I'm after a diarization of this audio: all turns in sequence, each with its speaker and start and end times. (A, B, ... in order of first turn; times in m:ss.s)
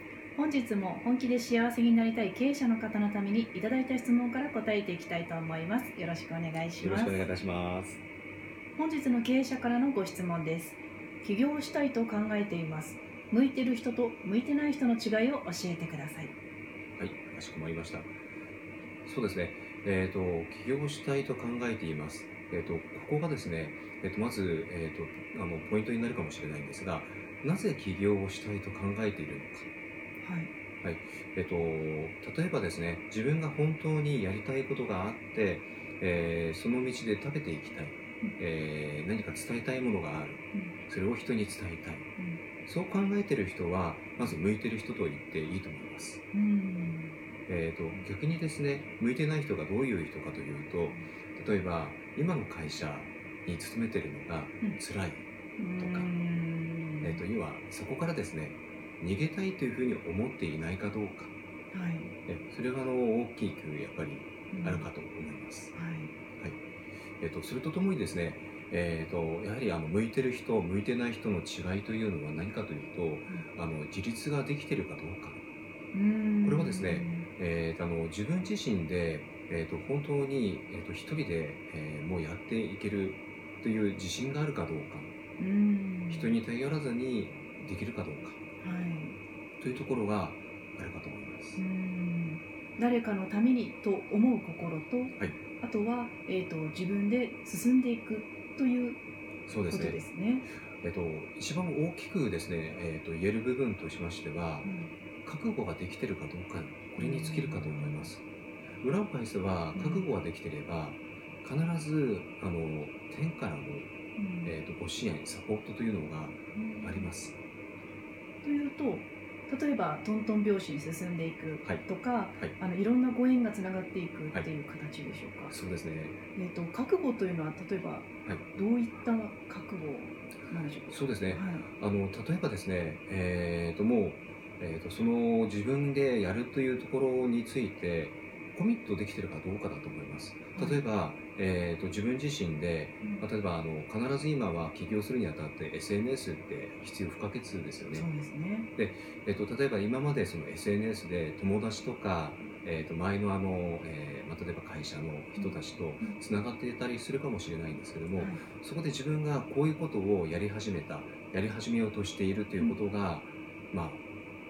0:00.4-0:07.2 A
0:06.8-0:08.0 B
0:08.8-0:16.3 A
0:17.0-0:18.1 B
0:19.0-0:29.7 B
0:30.2-0:30.5 A
0:30.8-0:42.1 B
0:42.6-0:46.2 B
0:46.3-0:47.2 A
0:47.5-0:55.2 B
0:55.6-0:57.2 A
0:55.8-0:56.1 B
0:57.0-1:01.3 B
1:01.7-1:02.1 A
1:02.2-1:05.7 B
1:04.5-1:04.8 A
1:05.7-1:06.1 A
1:07.2-1:15.4 B
1:15.9-1:17.3 A
1:16.4-1:25.1 B
1:25.4-1:26.4 A
1:26.1-1:28.4 B
1:28.6-1:29.2 A
1:29.6-1:31.6 B
1:31.6-1:39.0 A
1:39.5-1:40.0 B
1:39.7-1:40.5 A
1:40.8-1:44.7 B
1:44.6-1:44.9 A
1:45.2-1:48.2 B
1:47.0-1:48.1 A
1:48.8-1:53.9 B
1:49.7-1:50.1 A
1:54.2-1:54.6 A
1:54.4-1:57.4 B
1:56.5-1:57.1 A
1:58.4-2:05.5 A
2:05.5-2:06.2 B
2:06.4-2:11.7 A
2:10.9-2:28.0 B
2:20.5-2:20.8 A
2:23.0-2:23.3 A
2:27.9-2:28.7 A
2:28.8-2:44.0 B
2:35.4-2:36.2 A
2:38.2-2:38.4 A